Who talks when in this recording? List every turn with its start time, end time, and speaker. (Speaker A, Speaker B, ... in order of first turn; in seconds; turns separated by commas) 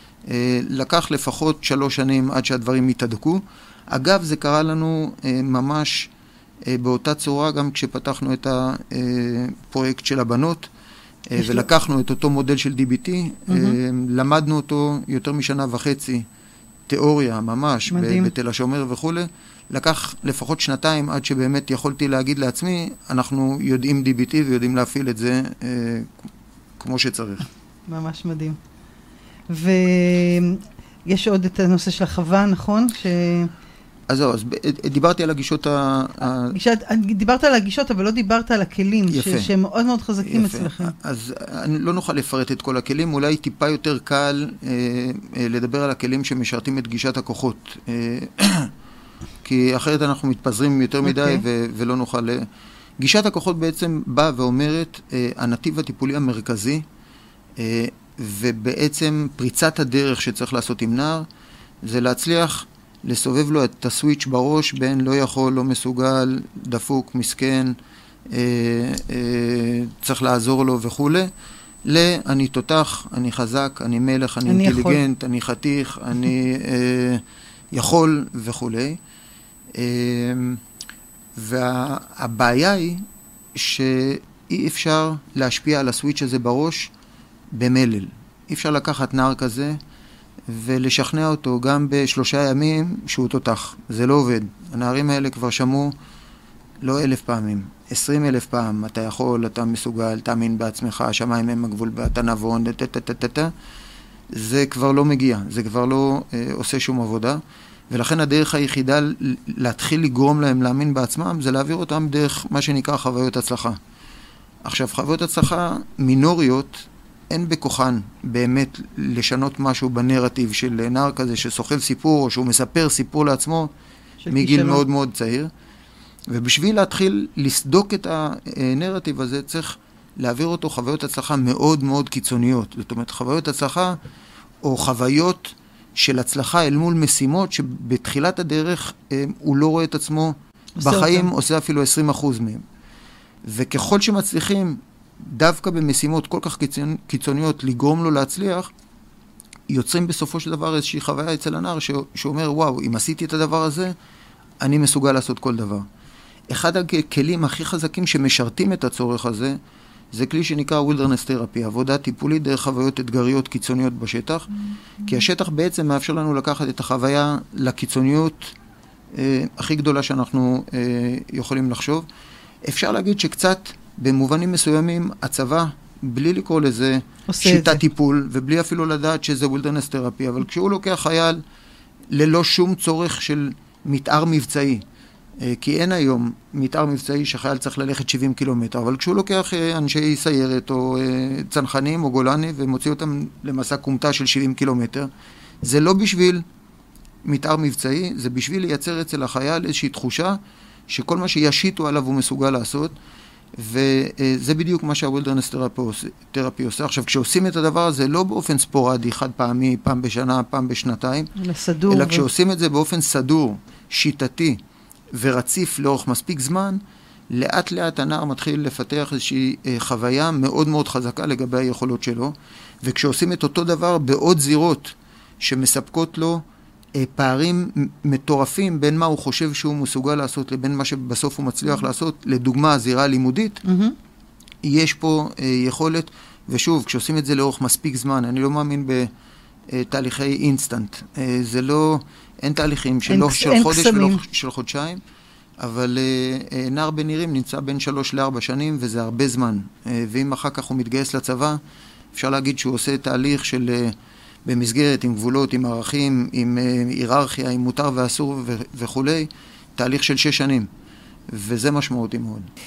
Speaker A: 0.3-6.1, Speaker A: 6.7-10.7, Speaker A: 11.3-16.3, Speaker B: 11.4-11.7, Speaker B: 13.5-13.8, Speaker A: 16.9-26.1, Speaker B: 17.9-18.3, Speaker A: 26.8-27.5, Speaker B: 27.9-28.6, Speaker B: 29.5-33.5, Speaker A: 34.1-36.6, Speaker B: 36.5-40.9, Speaker A: 39.1-39.5, Speaker A: 40.2-48.7, Speaker A: 49.4-52.5, Speaker B: 51.1-51.4, Speaker A: 53.0-56.9, Speaker A: 57.6-61.3, Speaker A: 61.8-67.8, Speaker A: 68.3-71.3, Speaker A: 71.8-79.0, Speaker B: 74.5-75.0, Speaker A: 79.8-80.6, Speaker A: 81.4-86.9, Speaker A: 87.5-89.8, Speaker A: 90.5-95.9, Speaker A: 96.8-103.5, Speaker A: 104.3-113.8, Speaker A: 114.6-123.7, Speaker B: 124.2-124.8, Speaker A: 124.3-125.5, Speaker A: 126.3-134.0, Speaker A: 134.6-142.6, Speaker B: 140.8-141.3, Speaker A: 143.5-148.7, Speaker A: 149.7-153.9, Speaker A: 154.6-155.9, Speaker A: 156.5-159.6, Speaker A: 160.1-164.5, Speaker A: 165.0-168.5, Speaker A: 169.1-172.1, Speaker A: 172.7-181.4, Speaker B: 177.3-177.8, Speaker A: 182.1-184.8, Speaker A: 185.4-195.1, Speaker A: 195.6-196.4, Speaker A: 197.2-202.9, Speaker A: 203.6-211.3, Speaker B: 211.4-212.2, Speaker A: 211.9-214.6, Speaker A: 215.1-226.4, Speaker A: 226.9-233.6, Speaker B: 233.7-233.9, Speaker A: 234.6-239.1, Speaker A: 239.7-245.0, Speaker B: 243.1-244.2, Speaker A: 245.6-251.6, Speaker A: 252.1-260.7, Speaker A: 261.3-262.5